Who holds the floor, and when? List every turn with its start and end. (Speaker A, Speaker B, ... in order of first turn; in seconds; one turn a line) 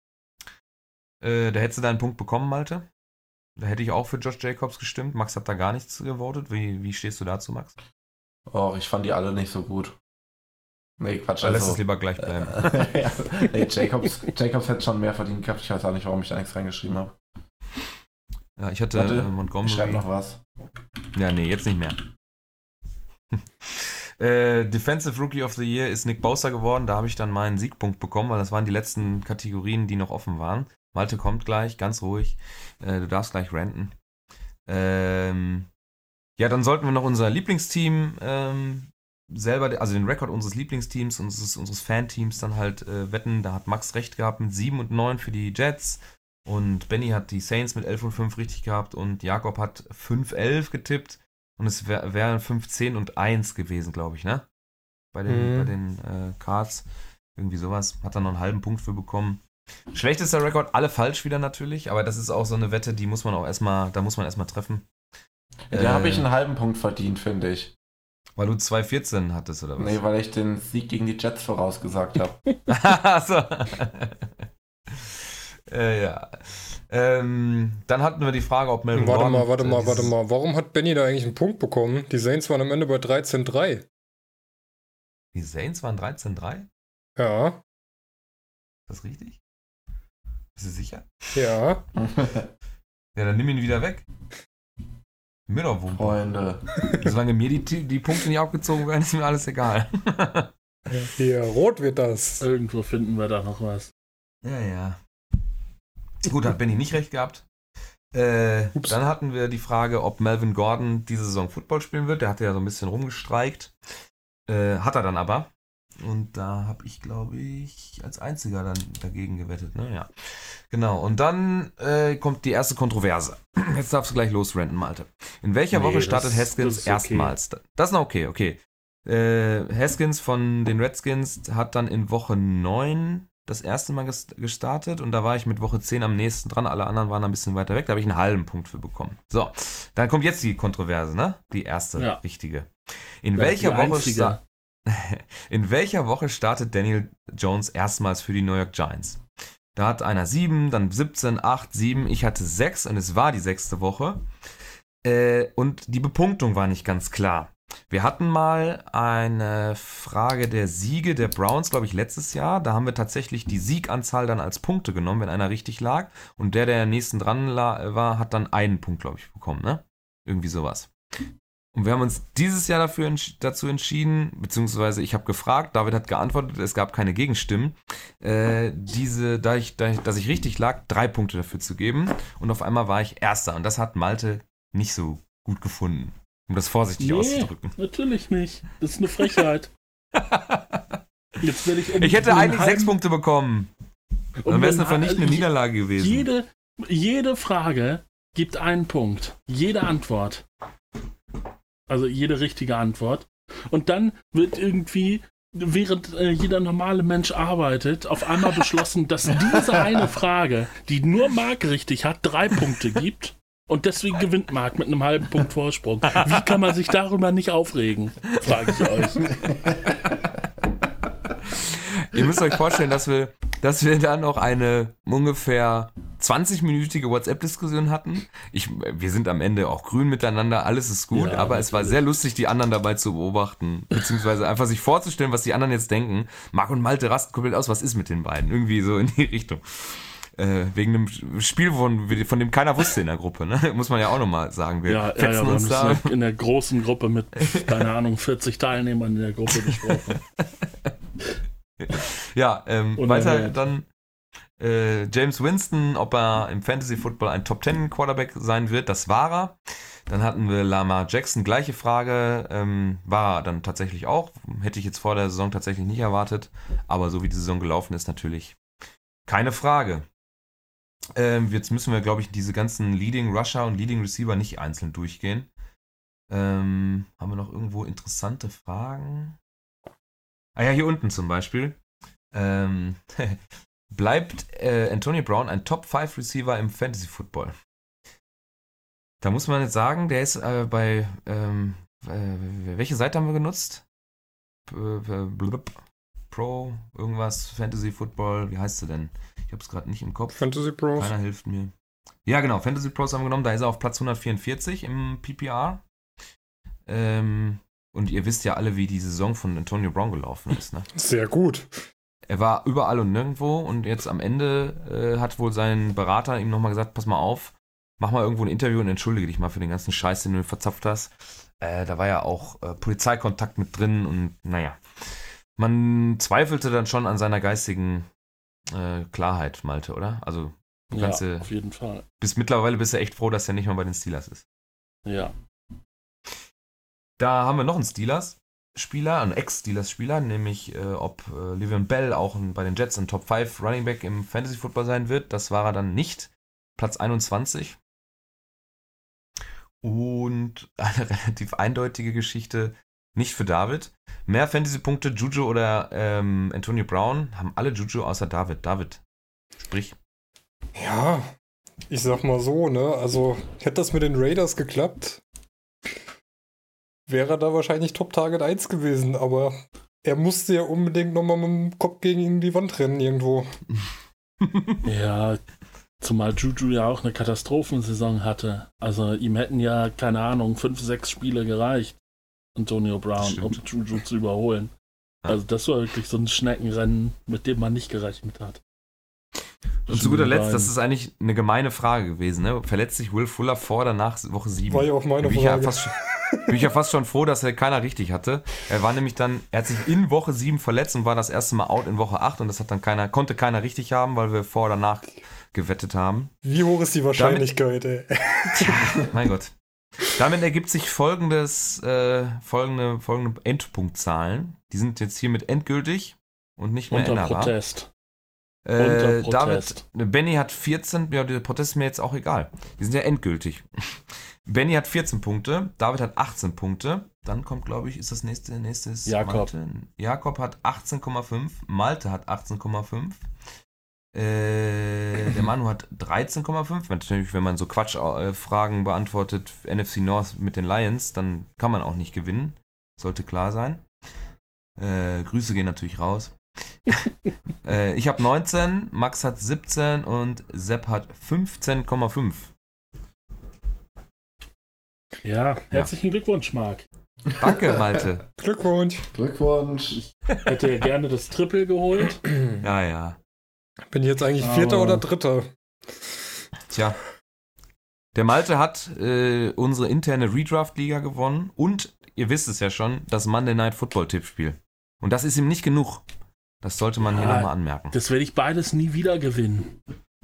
Speaker A: 1.2-2.9
Speaker A: 3.6-7.7
Speaker B: 8.5-10.0
Speaker B: 11.0-17.2
Speaker A: 11.4-12.9
Speaker A: 18.6-20.0
Speaker B: 18.9-20.4
Speaker A: 21.1-22.0
Speaker A: 23.4-33.9
Speaker A: 34.7-35.7
Speaker A: 36.4-54.5
Speaker A: 55.1-64.9
Speaker C: 55.3-55.7
Speaker B: 65.7-67.7
Speaker A: 65.7-66.2
Speaker A: 68.4-70.0
Speaker B: 69.8-72.4
Speaker A: 72.7-74.3
Speaker A: 74.9-75.2
Speaker A: 75.7-80.1
Speaker C: 78.9-83.8
Speaker A: 85.3-86.7
Speaker C: 87.2-87.6
Speaker A: 88.9-89.4
Speaker A: 90.6-91.1
Speaker C: 91.3-91.8
Speaker B: 92.0-92.5
Speaker A: 93.2-94.1
Speaker A: 95.5-96.2
Speaker B: 95.9-96.8
Speaker A: 96.9-100.5
Speaker C: 100.9-102.5
Speaker D: 102.4-103.9
Speaker A: 104.4-105.0
Speaker A: 106.2-107.5
Speaker A: 108.1-113.7
Speaker A: 114.5-149.2
Speaker D: 125.7-127.3
Speaker D: 142.0-142.2
Speaker D: 143.3-144.4
Speaker A: 149.8-154.3
Speaker A: 155.0-170.9
Speaker A: 171.7-187.8
Speaker D: 187.0-189.7
Speaker A: 190.2-191.0
Speaker D: 191.4-192.9
Speaker A: 191.9-193.7
Speaker D: 194.4-200.5
Speaker A: 194.5-196.3
Speaker D: 201.9-219.3
Speaker A: 219.9-220.3
Speaker A: 221.2-246.1
Speaker D: 231.1-232.0
Speaker D: 244.9-250.2
Speaker A: 247.4-247.7
Speaker A: 249.6-250.9
Speaker A: 251.8-253.9
Speaker D: 253.0-253.6
Speaker A: 254.6-268.6
Speaker A: 269.3-270.1
Speaker A: 271.1-275.5
Speaker A: 276.3-279.4
Speaker A: 280.6-281.8
Speaker A: 282.3-283.4
Speaker A: 283.9-287.5
Speaker A: 289.2-293.8
Speaker A: 294.7-295.8
Speaker A: 296.3-301.7
Speaker C: 300.3-301.1
Speaker A: 302.2-305.8
Speaker A: 306.9-310.9
Speaker C: 310.9-311.8
Speaker A: 312.3-328.1
Speaker A: 328.7-331.5
Speaker D: 330.9-332.1
Speaker A: 332.2-334.4
Speaker D: 335.1-335.3
Speaker A: 337.2-347.8
Speaker A: 349.8-359.0
Speaker A: 359.6-360.0
Speaker C: 360.8-361.3
Speaker C: 361.9-365.2
Speaker C: 367.1-373.5
Speaker A: 374.4-374.8
Speaker D: 374.9-375.4
Speaker D: 376.0-382.0
Speaker D: 382.6-384.7
Speaker A: 383.2-383.6
Speaker D: 385.3-388.6
Speaker D: 389.9-390.7
Speaker A: 389.9-396.0
Speaker C: 394.7-396.5
Speaker A: 396.5-406.3
Speaker C: 406.4-408.9
Speaker A: 407.1-407.5
Speaker A: 408.6-409.5
Speaker A: 410.1-417.5
Speaker D: 416.9-417.9
Speaker A: 418.6-433.3
Speaker D: 418.8-419.8
Speaker D: 429.1-429.5
Speaker A: 434.1-443.9
Speaker A: 444.8-447.0
Speaker A: 447.6-452.5
Speaker D: 455.2-456.9
Speaker A: 457.4-458.2
Speaker C: 458.4-459.1
Speaker B: 459.1-460.0
Speaker D: 460.4-462.2
Speaker A: 462.6-463.2
Speaker C: 463.9-465.5
Speaker D: 464.4-465.0
Speaker A: 466.7-467.0
Speaker A: 468.1-476.0
Speaker A: 476.6-477.9
Speaker D: 477.0-479.8